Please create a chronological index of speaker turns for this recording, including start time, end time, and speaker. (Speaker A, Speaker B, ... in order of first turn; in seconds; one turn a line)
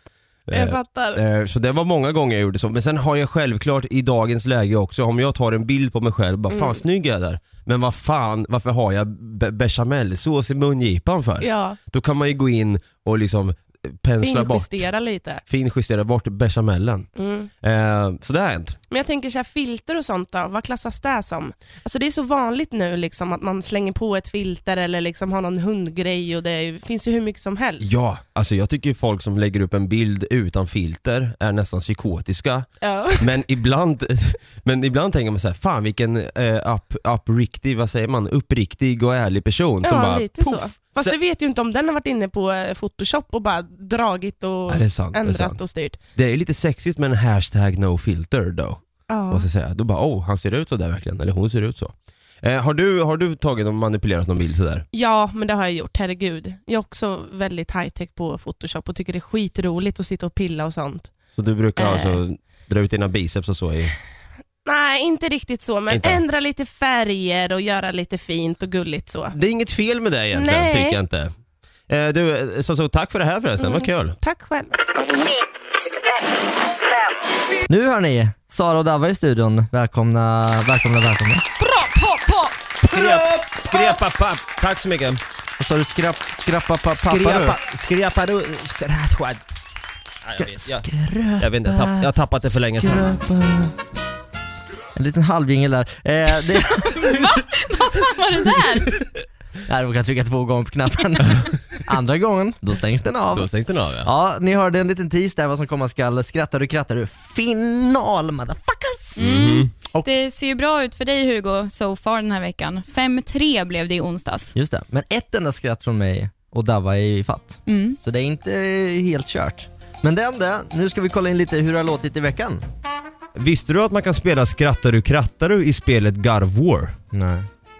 Speaker A: 0.5-14.8
Speaker B: 0.5-1.2
Speaker B: 6.5-6.8
Speaker B: 11.4-11.8
Speaker B: 14.2-15.4
Speaker A: 15.5-17.1
Speaker B: 17.2-17.5
Speaker A: 17.6-18.8
Speaker B: 18.9-27.9
Speaker A: 27.8-41.1
Speaker B: 32.8-33.3
Speaker B: 39.8-46.0
Speaker A: 44.7-45.6
Speaker A: 46.1-54.8
Speaker B: 49.1-49.5
Speaker B: 54.9-61.1
Speaker A: 61.3-64.0
Speaker B: 61.8-62.2
Speaker B: 64.6-69.3
Speaker A: 65.9-66.2
Speaker A: 69.3-71.3
Speaker B: 70.3-71.0
Speaker A: 71.9-74.2
Speaker B: 73.6-74.7
Speaker C: 77.7-81.4
Speaker D: 81.6-82.5
Speaker A: 82.8-85.2
Speaker C: 85.6-87.5
Speaker A: 86.9-89.4
Speaker A: 90.2-90.8
Speaker C: 90.3-93.7
Speaker A: 91.4-93.2
Speaker C: 94.9-97.3
Speaker D: 96.8-99.0
Speaker C: 99.7-103.5
Speaker A: 103.3-104.1
Speaker C: 104.0-109.3
Speaker D: 109.2-114.5
Speaker A: 109.2-109.7
Speaker C: 114.5-122.7
Speaker D: 117.7-118.0
Speaker A: 123.3-127.0
Speaker C: 127.1-127.5